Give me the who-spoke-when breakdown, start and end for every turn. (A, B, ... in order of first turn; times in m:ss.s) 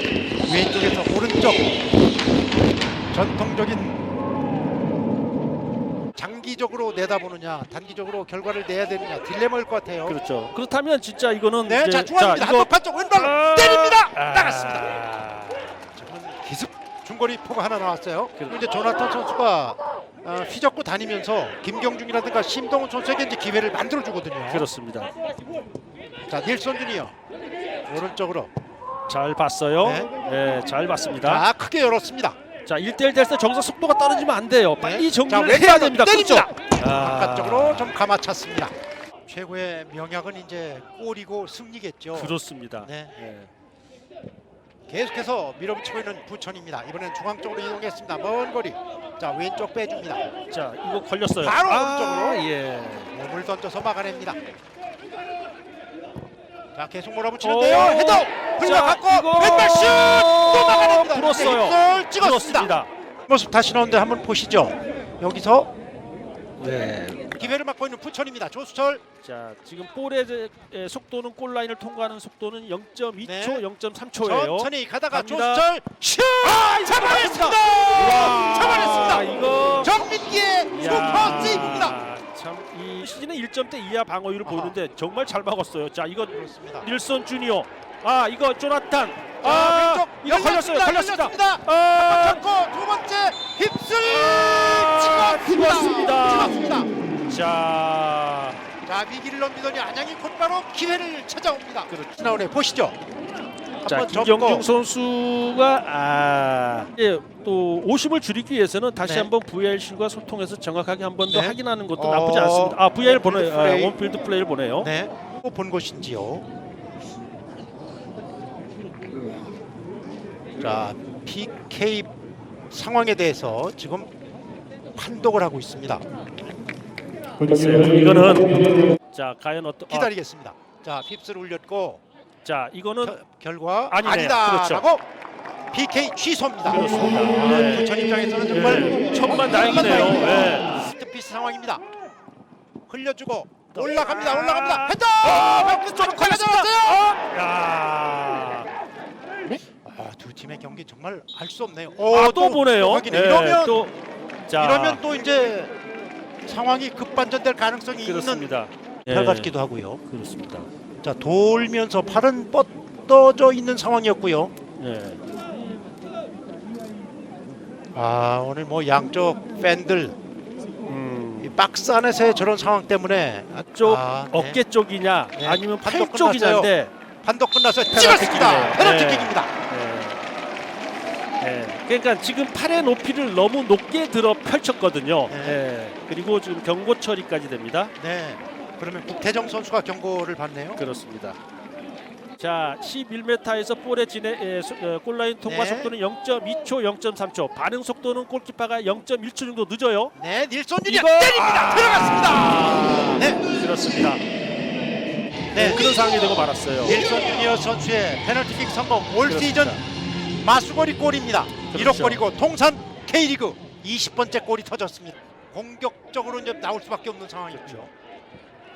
0:00.4-0:01.6 A
0:03.1-0:04.0 A
0:06.2-0:10.2 A
0:10.1-0:16.0 B
0:11.6-0:14.9 A
0:15.9-0:24.6 A
0:24.5-0:25.1 B
0:26.3-0:27.1 A
0:27.9-0:28.5 A
0:29.1-0:31.4 B
0:29.8-0:30.1 A
0:31.2-0:32.4 A
0:32.6-0:37.9 B
0:34.8-0:38.7 A
0:39.3-0:43.1 A
0:42.1-0:43.5 B
0:44.9-0:50.2 A
0:50.5-0:53.1 B
0:51.4-0:52.4 A
0:53.1-0:54.4 A
0:56.7-1:02.8 A
0:57.4-1:02.9 B
1:03.3-1:05.7 A
1:06.6-1:07.5 B
1:07.4-1:09.0 A
1:09.2-1:15.7 B
1:13.2-1:13.6 A
1:14.2-1:22.0 A
1:16.4-1:19.9 B
1:20.7-1:32.4 B
1:24.4-1:24.7 A
1:26.3-1:26.9 A
1:29.4-1:36.9 A
1:34.0-1:36.6 B
1:37.3-1:38.6 B
1:38.8-1:43.0 A
1:41.9-1:42.2 B
1:43.8-1:44.6 A
1:43.8-1:54.9 B
1:49.0-1:49.3 A
1:51.3-1:53.9 A
1:54.8-1:56.4 A
2:00.6-2:02.1 A
2:02.7-2:04.1 A
2:05.0-2:06.0 A
2:07.4-2:10.1 B
2:09.9-2:12.0 A
2:12.4-2:13.2 B
2:13.0-2:15.0 A
2:13.9-2:14.8 B
2:15.7-2:21.8 A
2:16.6-2:17.9 B
2:18.5-2:20.9 B
2:22.9-2:27.1 A
2:23.7-2:28.7 B
2:29.8-2:33.8 A
2:32.1-2:33.9 B
2:34.5-2:35.0 B
2:34.6-2:35.7 A
2:36.4-2:38.5 A
2:38.0-2:39.5 B
2:39.1-2:40.0 A
2:40.1-2:40.7 B
2:41.0-2:44.5 A
2:44.8-2:45.2 B
2:47.9-2:50.2 A
2:50.9-2:51.5 B
2:51.4-2:54.6 A
2:53.7-2:56.9 B
2:55.3-2:56.7 A
2:57.2-2:59.5 A
2:57.9-3:00.2 B
3:01.4-3:07.9 B
3:05.3-3:05.6 A
3:08.0-3:10.8 A
3:10.8-3:11.4 B
3:12.4-3:20.1 B
3:15.4-3:15.9 A
3:20.2-3:23.4 A
3:20.8-3:24.2 B
3:25.5-3:25.9 A
3:25.5-3:27.0 B
3:26.8-3:29.8 A
3:29.2-3:29.8 B
3:30.4-3:37.9 A
3:31.7-3:32.2 B
3:37.5-3:37.8 B